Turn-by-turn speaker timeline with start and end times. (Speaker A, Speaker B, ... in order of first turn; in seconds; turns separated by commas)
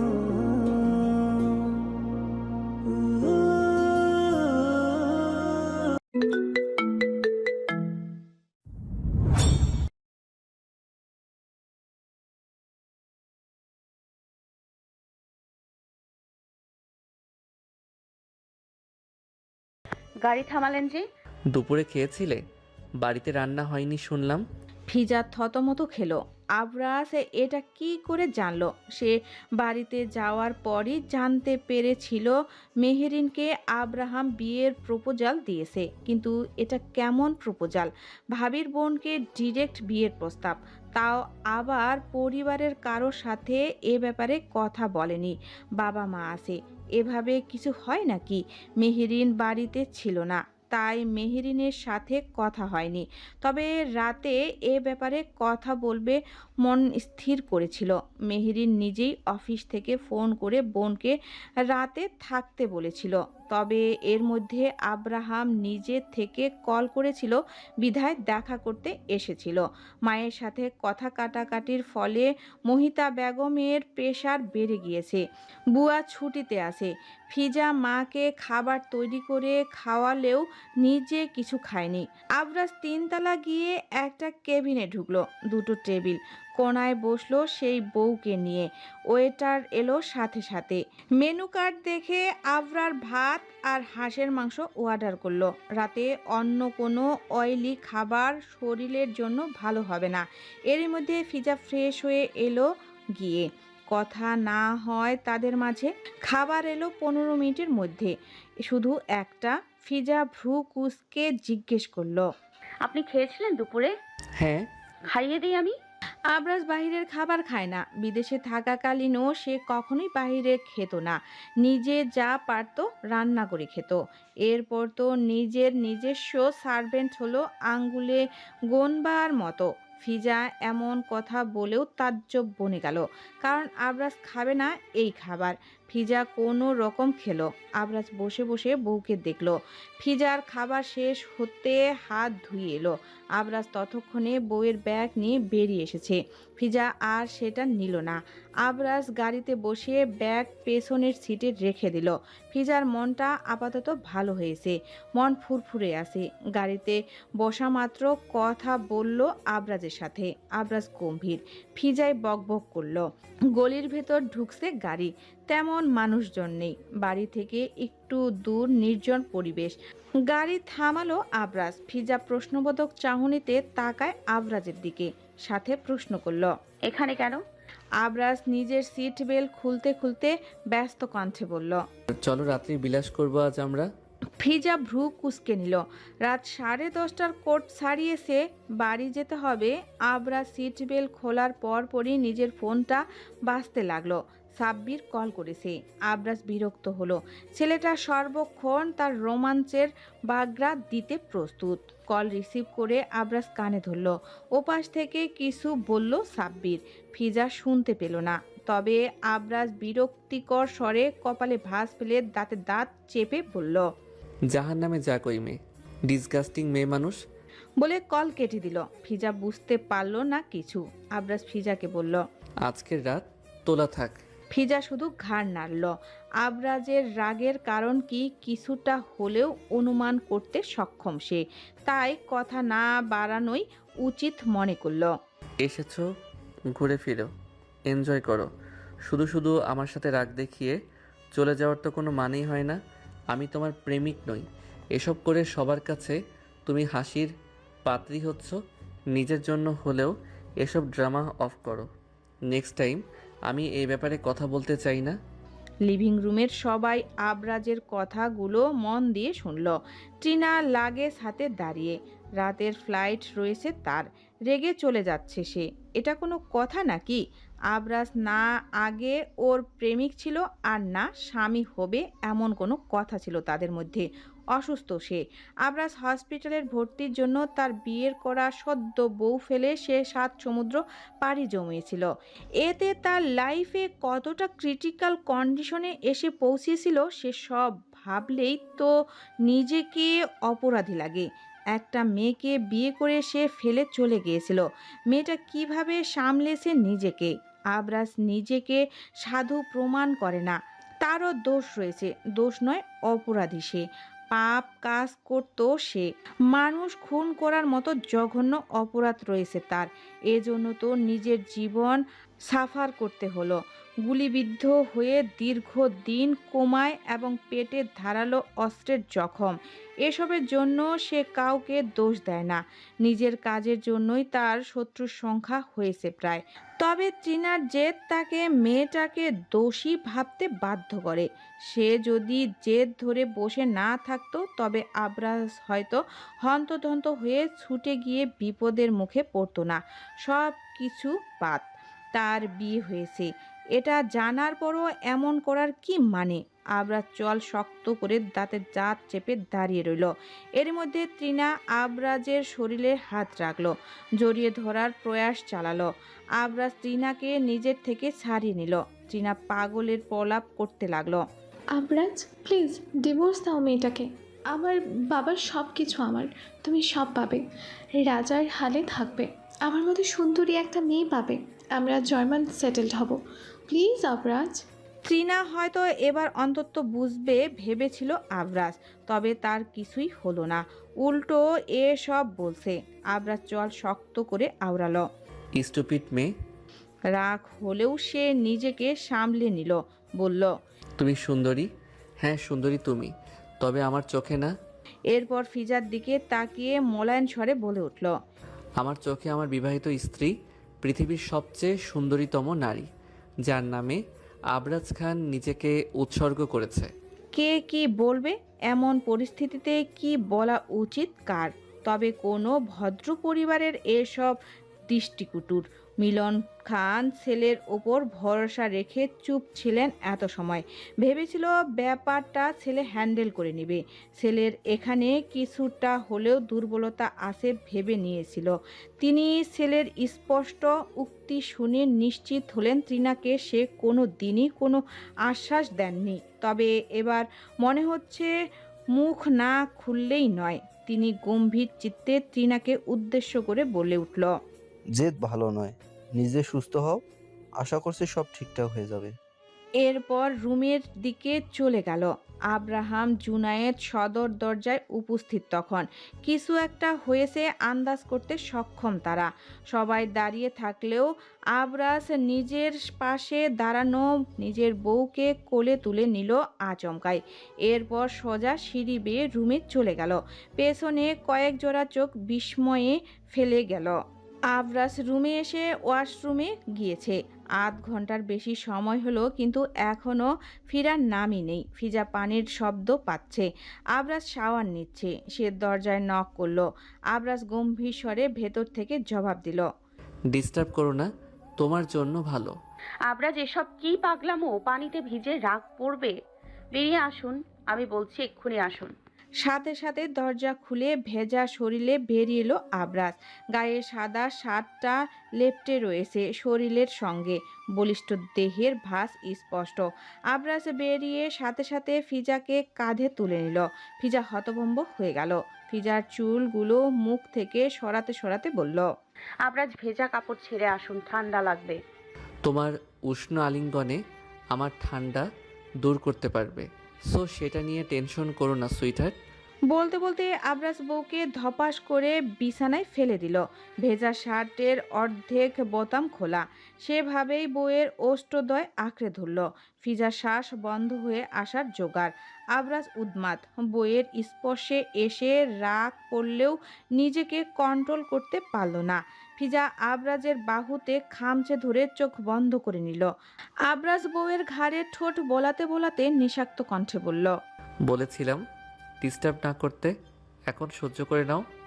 Speaker A: 20.2-21.0, Speaker B: 21.5-22.4, Speaker B: 23.0-24.4, Speaker C: 24.9-61.2, Speaker C: 61.7-108.1, Speaker C: 108.7-112.2, Speaker A: 112.8-113.9, Speaker B: 114.4-114.7, Speaker A: 115.1-115.7, Speaker C: 116.3-163.1, Speaker C: 163.6-169.8, Speaker C: 170.3-176.5, Speaker A: 176.9-177.4, Speaker C: 178.0-181.8, Speaker B: 182.2-183.9, Speaker C: 184.4-213.8, Speaker B: 214.5-217.2, Speaker C: 217.8-222.2, Speaker B: 222.6-224.1, Speaker C: 224.5-235.1, Speaker B: 235.6-236.1, Speaker B: 236.7-237.3, Speaker B: 237.9-238.5, Speaker B: 239.1-240.8, Speaker B: 241.3-242.8, Speaker B: 243.3-247.3, Speaker B: 247.8-248.6, Speaker B: 249.1-250.1, Speaker B: 250.6-251.9, Speaker B: 252.5-255.2, Speaker C: 255.9-267.2, Speaker C: 267.7-282.1, Speaker C: 282.6-288.9, Speaker C: 289.5-361.2, Speaker D: 361.7-367.4, Speaker D: 368.0-374.6, Speaker C: 375.1-385.0, Speaker B: 385.6-386.3, Speaker C: 387.1-390.5, Speaker B: 391.0-391.7, Speaker B: 392.2-394.5, Speaker C: 395.1-398.1, Speaker B: 398.8-402.9, Speaker B: 403.5-404.0, Speaker B: 404.5-406.9, Speaker C: 407.3-414.4, Speaker C: 414.9-438.3, Speaker C: 438.9-444.3, Speaker E: 444.9-447.0, Speaker E: 447.6-449.1, Speaker C: 449.8-474.0, Speaker C: 474.5-489.7, Speaker B: 490.3-491.1, Speaker B: 491.6-492.6, Speaker A: 493.1-496.1, Speaker A: 496.7-498.9, Speaker C: 499.4-518.9, Speaker A: 519.5-521.8, Speaker B: 522.5-524.0, Speaker B: 524.5-525.3, Speaker B: 525.8-529.1, Speaker C: 529.7-553.1, Speaker C: 553.7-557.3, Speaker B: 557.9-558.4, Speaker B: 559.0-559.9, Speaker B: 560.5-561.4